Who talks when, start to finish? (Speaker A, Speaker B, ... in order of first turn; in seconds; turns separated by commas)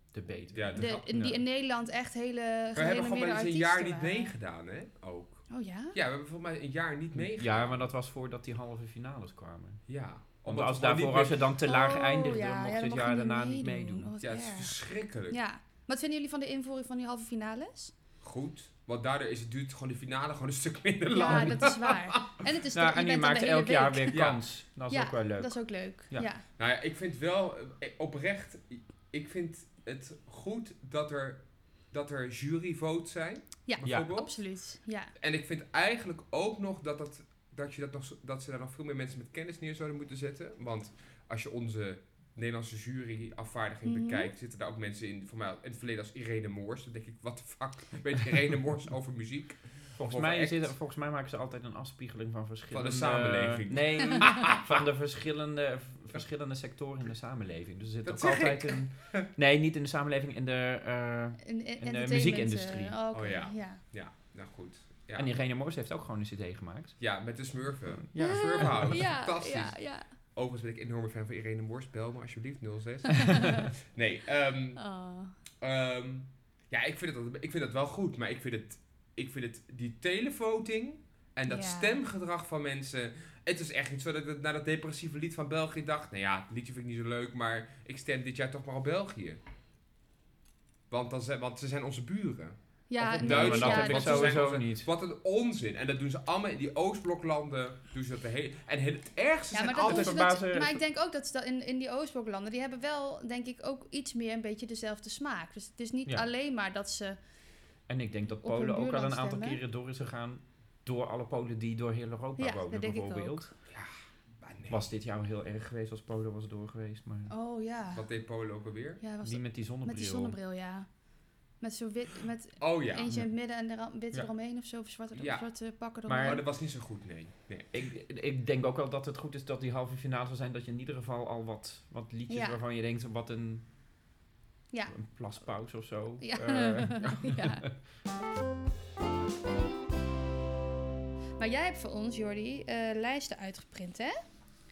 Speaker A: 0.1-1.4, Speaker B: 0.5-1.0, Speaker C: 0.7-4.3, Speaker B: 2.7-7.9, Speaker C: 5.5-5.9, Speaker A: 7.1-9.8, Speaker B: 9.9-11.4, Speaker A: 10.4-14.1, Speaker C: 11.6-14.7, Speaker B: 14.2-15.4, Speaker C: 15.3-17.9, Speaker B: 18.2-22.4, Speaker C: 21.1-24.2, Speaker A: 21.2-21.5, Speaker A: 22.7-26.3, Speaker B: 24.1-24.4, Speaker C: 24.9-26.4, Speaker B: 26.6-34.4, Speaker C: 33.7-35.1, Speaker A: 33.8-34.1, Speaker B: 35.2-50.7, Speaker C: 43.8-44.3, Speaker A: 50.0-63.0, Speaker B: 52.7-54.9, Speaker B: 58.0-59.2, Speaker C: 61.4-63.8, Speaker B: 63.1-65.3, Speaker A: 65.2-67.0, Speaker B: 67.0-74.8, Speaker A: 68.0-69.0, Speaker C: 68.2-70.1, Speaker C: 73.3-73.7, Speaker C: 74.8-75.3, Speaker B: 75.6-89.4, Speaker C: 81.5-82.0, Speaker B: 90.9-100.3, Speaker C: 92.9-94.4, Speaker A: 93.1-94.9, Speaker C: 99.5-107.2, Speaker A: 99.7-100.8, Speaker A: 107.9-113.5, Speaker C: 108.4-109.6, Speaker C: 112.4-113.5, Speaker B: 113.7-114.8, Speaker A: 114.7-117.3, Speaker C: 117.3-118.0, Speaker B: 117.9-119.0, Speaker C: 119.0-120.9, Speaker A: 119.2-120.4, Speaker C: 121.6-126.5, Speaker B: 122.6-123.1, Speaker B: 125.1-125.4, Speaker A: 126.1-126.4, Speaker B: 126.2-127.8, Speaker A: 127.7-133.7, Speaker C: 132.3-132.6, Speaker A: 134.9-137.7, Speaker C: 136.2-137.6, Speaker C: 141.4-144.2